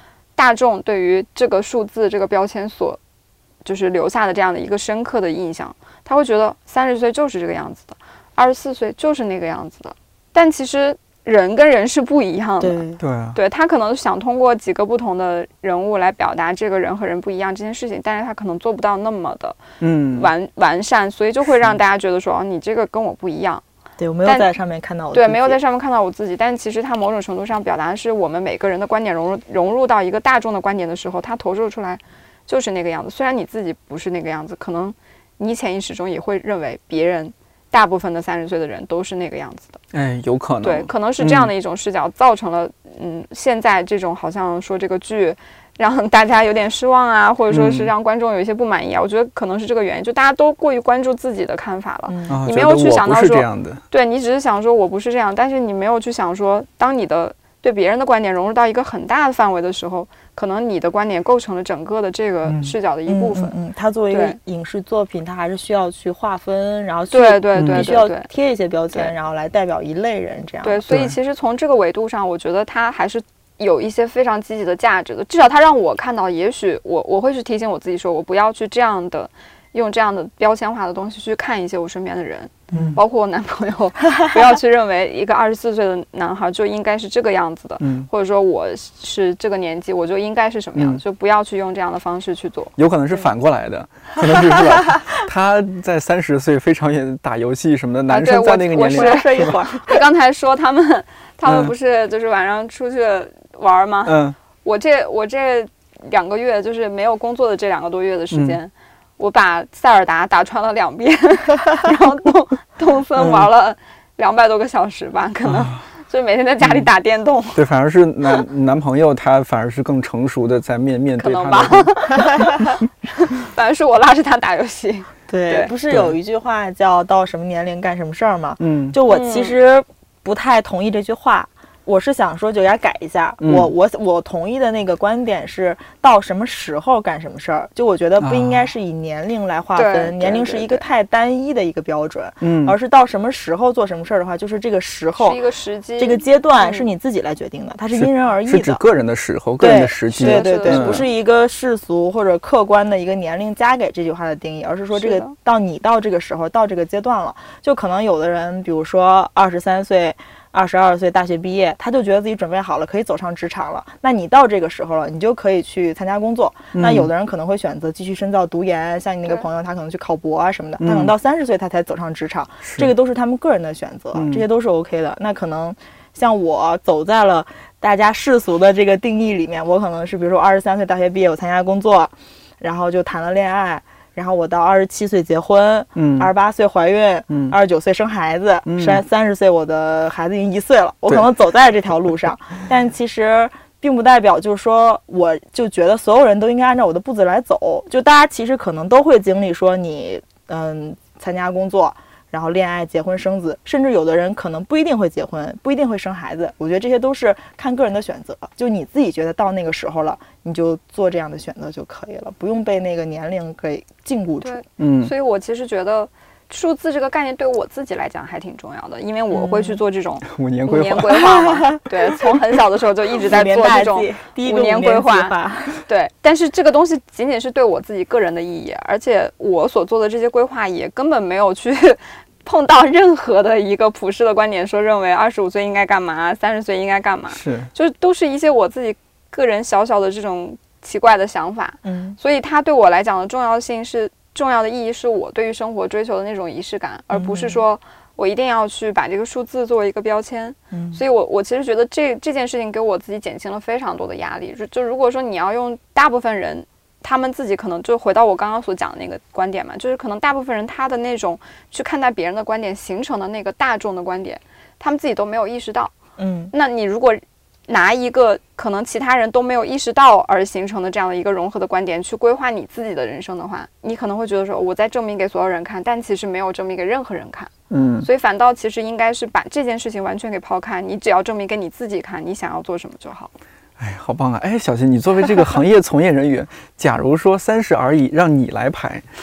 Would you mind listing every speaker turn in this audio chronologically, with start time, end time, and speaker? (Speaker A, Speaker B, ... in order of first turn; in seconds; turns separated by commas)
Speaker A: 0.3-3.0, Speaker A: 3.6-12.8, Speaker B: 12.6-13.0, Speaker C: 13.0-13.4, Speaker A: 13.3-19.6, Speaker C: 19.8-20.3, Speaker A: 20.1-23.6, Speaker B: 24.0-25.6, Speaker A: 25.1-39.8, Speaker C: 39.9-41.5, Speaker A: 40.6-63.5, Speaker C: 47.5-47.9, Speaker B: 52.1-52.4, Speaker C: 52.3-53.8, Speaker C: 62.5-62.7, Speaker B: 63.1-70.8, Speaker A: 64.1-64.4, Speaker A: 67.1-68.3, Speaker C: 67.5-67.8, Speaker A: 70.6-93.2, Speaker C: 70.9-71.2, Speaker C: 82.7-83.0, Speaker C: 87.8-88.1, Speaker C: 90.8-91.0, Speaker C: 92.8-99.6, Speaker A: 98.1-117.6, Speaker B: 98.7-100.0, Speaker C: 101.4-101.7, Speaker C: 104.0-104.3, Speaker C: 108.3-108.6, Speaker C: 113.2-113.5, Speaker C: 115.5-115.8, Speaker C: 116.6-116.9, Speaker C: 117.5-121.9, Speaker A: 121.2-125.7, Speaker B: 125.3-145.4, Speaker C: 125.9-126.2, Speaker C: 128.6-129.0, Speaker A: 129.1-129.5, Speaker C: 133.4-133.7, Speaker C: 138.2-138.7, Speaker A: 139.8-140.8, Speaker C: 142.4-142.7, Speaker A: 145.2-146.9, Speaker B: 146.0-148.8, Speaker C: 147.9-151.1, Speaker B: 149.6-214.6, Speaker A: 150.2-151.0, Speaker A: 154.9-155.3, Speaker C: 166.7-167.1, Speaker C: 170.8-171.1, Speaker C: 172.6-172.9, Speaker C: 174.1-174.4, Speaker C: 185.9-186.3, Speaker C: 187.3-187.6, Speaker C: 188.7-189.0, Speaker A: 214.4-265.9, Speaker C: 214.8-215.1, Speaker B: 219.3-219.8, Speaker C: 220.2-221.2, Speaker B: 221.2-221.8, Speaker B: 223.2-225.8, Speaker C: 237.3-237.7, Speaker B: 241.8-242.2, Speaker B: 247.1-247.6, Speaker B: 250.7-251.0, Speaker B: 266.2-266.5, Speaker A: 266.5-277.5, Speaker C: 277.7-278.1, Speaker A: 278.0-283.3, Speaker C: 283.8-289.0